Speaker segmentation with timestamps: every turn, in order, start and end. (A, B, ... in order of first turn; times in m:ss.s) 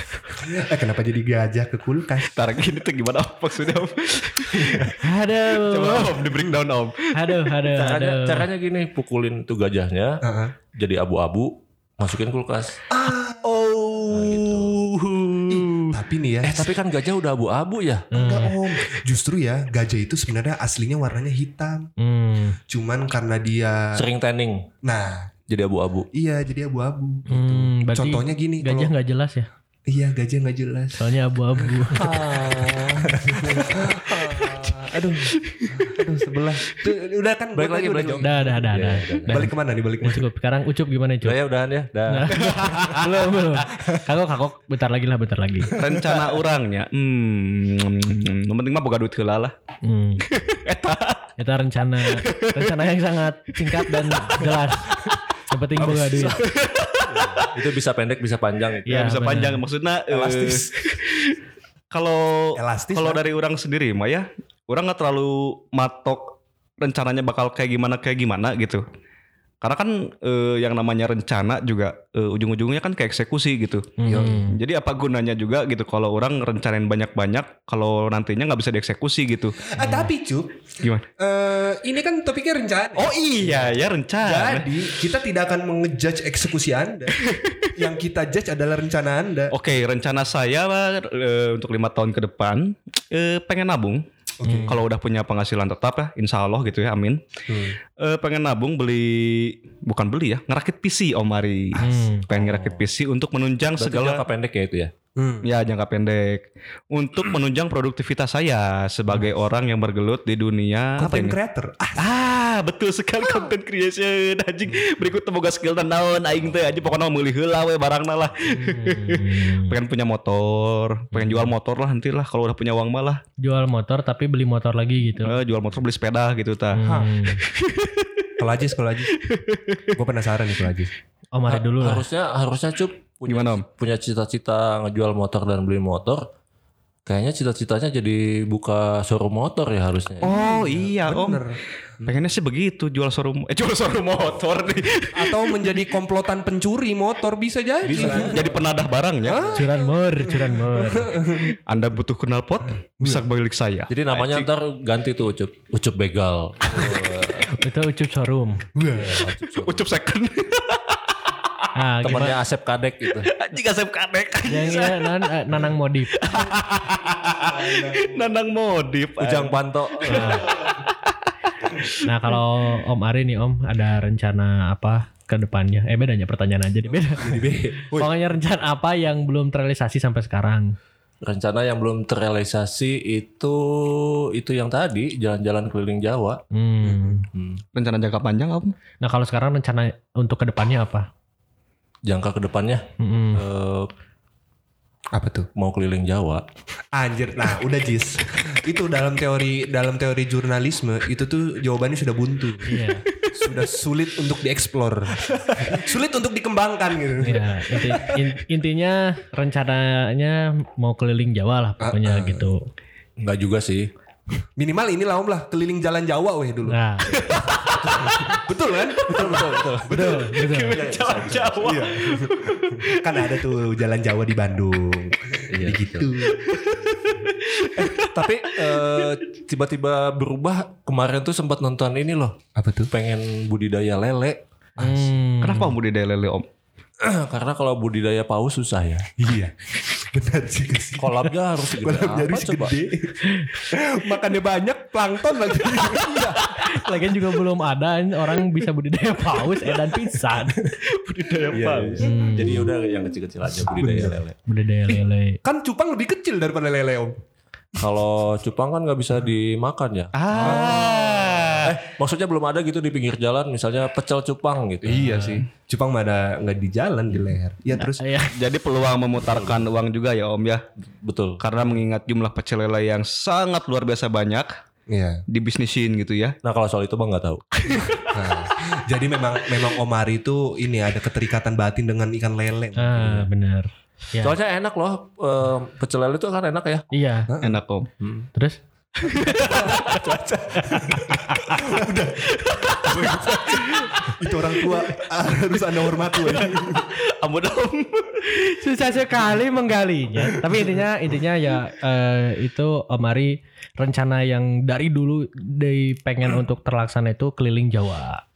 0:00.3-0:02.4 A
0:02.3-0:07.6 B
0:05.0-0:06.2 C
0:07.1-0:08.5 C
0:07.7-0:10.2 D
0:10.2-0:10.5 A
0:10.7-0:12.8 D
0:12.9-0:14.6 A
0:14.1-0:15.8 D
0:15.5-0:16.7 A
0:16.4-0:18.1 D
0:18.1-0:18.5 C
0:18.1-0:21.9 A
0:22.0-0:22.6 C
0:22.7-0:24.0 A
0:23.9-0:24.7 D
0:24.8-0:25.3 A
0:25.5-0:26.1 D
0:26.1-0:28.9 A
0:27.3-0:29.5 C
0:29.9-0:31.0 A
0:30.9-0:32.2 C
0:31.6-0:38.3 A
0:31.9-0:34.5 D
0:37.5-0:39.5 D
0:38.2-0:41.4 C
0:39.3-0:40.2 A
0:41.2-0:42.8 D
0:42.1-0:45.8 C
0:42.7-0:43.0 A
0:45.8-0:49.5 B
0:49.8-0:50.2 C
0:50.3-0:51.3 B
0:51.4-0:54.9 C
0:52.1-0:52.8 B
0:53.7-0:54.4 B
0:55.5-0:56.4 C
0:55.8-0:56.3 A
0:56.2-0:57.6 B
0:57.0-0:59.0 D
0:58.9-0:59.6 C
0:58.9-1:01.4 B
1:00.1-1:00.6 A
1:01.9-1:08.8 B
1:02.6-1:03.2 A
1:09.6-1:19.7 B
1:14.0-1:14.6 C
1:14.0-1:14.4 A
1:19.6-1:20.6 A
1:19.8-1:20.1 C
1:20.8-1:21.0 B
1:21.2-1:27.2 A
1:22.9-1:24.7 B
1:27.2-1:27.6 B
1:27.7-1:29.5 A
1:29.5-1:34.0 B
1:34.4-1:34.8 A
1:34.4-1:34.8 C
1:34.6-1:37.2 B
1:37.5-1:37.8 A
1:38.0-1:44.2 B
1:41.8-1:42.1 A
1:41.8-1:42.2 C
1:42.3-1:42.9 D
1:43.8-1:44.9 D
1:45.2-1:45.5 A
1:45.4-1:51.4 B
1:51.0-1:52.1 A
1:52.0-2:03.2 B
1:58.5-1:59.8 C
2:01.1-2:01.5 C
2:03.4-2:05.4 C
2:05.2-2:06.8 B
2:06.7-2:07.4 C
2:06.8-2:07.1 A
2:07.4-2:08.2 B
2:08.4-2:09.2 A
2:09.2-2:09.8 B
2:09.9-2:10.9 A
2:11.3-2:12.0 C
2:11.5-2:16.3 D
2:13.3-2:13.6 B
2:17.0-2:20.3 D
2:20.2-2:21.4 B
2:20.2-2:22.1 A
2:22.0-2:25.8 B
2:25.1-2:28.6 A
2:27.8-2:28.6 D
2:28.0-2:29.6 B
2:29.2-2:31.5 A
2:29.5-2:31.2 C
2:31.7-2:34.5 B
2:33.9-2:37.5 D
2:37.5-2:38.6 C
2:38.8-2:39.3 A
2:38.9-2:39.9 D
2:39.6-2:41.3 B
2:41.7-2:42.4 C
2:42.0-2:43.3 D
2:43.2-2:45.6 B
2:44.5-2:46.5 C
2:46.2-2:51.3 B
2:47.3-2:48.2 A
2:49.2-2:50.5 D
2:50.1-2:50.5 C
2:52.0-3:00.7 C
2:57.2-2:58.1 A
3:01.2-3:06.4 D
3:06.5-3:07.2 C
3:06.8-3:07.1 A
3:07.3-3:07.6 D
3:07.7-3:08.7 B
3:09.0-3:11.1 C
3:12.0-3:13.9 D
3:13.0-3:13.4 C
3:15.1-3:15.5 A
3:15.6-3:16.4 D
3:16.9-3:22.8 A
3:22.6-3:23.0 C
3:23.3-3:28.3 A
3:27.2-3:32.6 C
3:31.8-3:32.5 A
3:33.2-3:33.9 D
3:34.6-3:40.3 A
3:36.7-3:37.2 C
3:37.1-3:38.4 B
3:37.9-3:38.2 D
3:39.0-3:39.4 B
3:39.1-3:40.0 D
3:39.9-3:40.8 C
3:40.4-3:43.3 B
3:40.7-3:41.8 D
3:41.6-3:46.5 A
3:45.5-3:46.1 D
3:46.4-3:49.2 B
3:47.8-3:48.5 A
3:48.4-3:52.4 D
3:52.6-3:52.9 A
3:52.9-3:54.4 D
3:54.8-3:55.1 A
3:54.8-3:55.7 C
3:55.4-3:56.4 B
3:57.0-3:59.1 D
3:59.2-4:06.9 A
4:01.0-4:02.8 D
4:06.5-4:10.6 C
4:10.7-4:12.1 B
4:11.5-4:14.4 D
4:12.0-4:12.7 C
4:13.7-4:14.2 A
4:14.4-4:15.4 C
4:15.4-4:17.2 A
4:17.8-4:20.9 D
4:20.2-4:21.7 B
4:20.4-4:21.1 A
4:21.6-4:25.1 D
4:24.8-4:28.1 A
4:25.0-4:25.4 C
4:27.8-4:28.4 C
4:28.3-4:30.6 B
4:29.2-4:29.7 D
4:31.0-4:31.4 D
4:31.4-4:34.5 B
4:34.9-4:35.2 A
4:35.3-4:36.4 B
4:36.4-4:37.4 D
4:37.6-4:38.1 B
4:38.1-4:43.3 A
4:42.8-4:44.4 C
4:44.2-4:46.8 D
4:46.9-4:47.3 C
4:47.3-4:47.6 A
4:47.4-4:47.9 B
4:48.0-4:48.3 D
4:49.0-4:56.9 A
4:49.0-4:49.9 B
4:49.1-4:49.9 C
4:49.9-4:50.2 D
4:50.6-4:51.7 C
4:52.3-4:54.0 B
4:56.2-4:58.6 B
4:58.4-5:08.2 C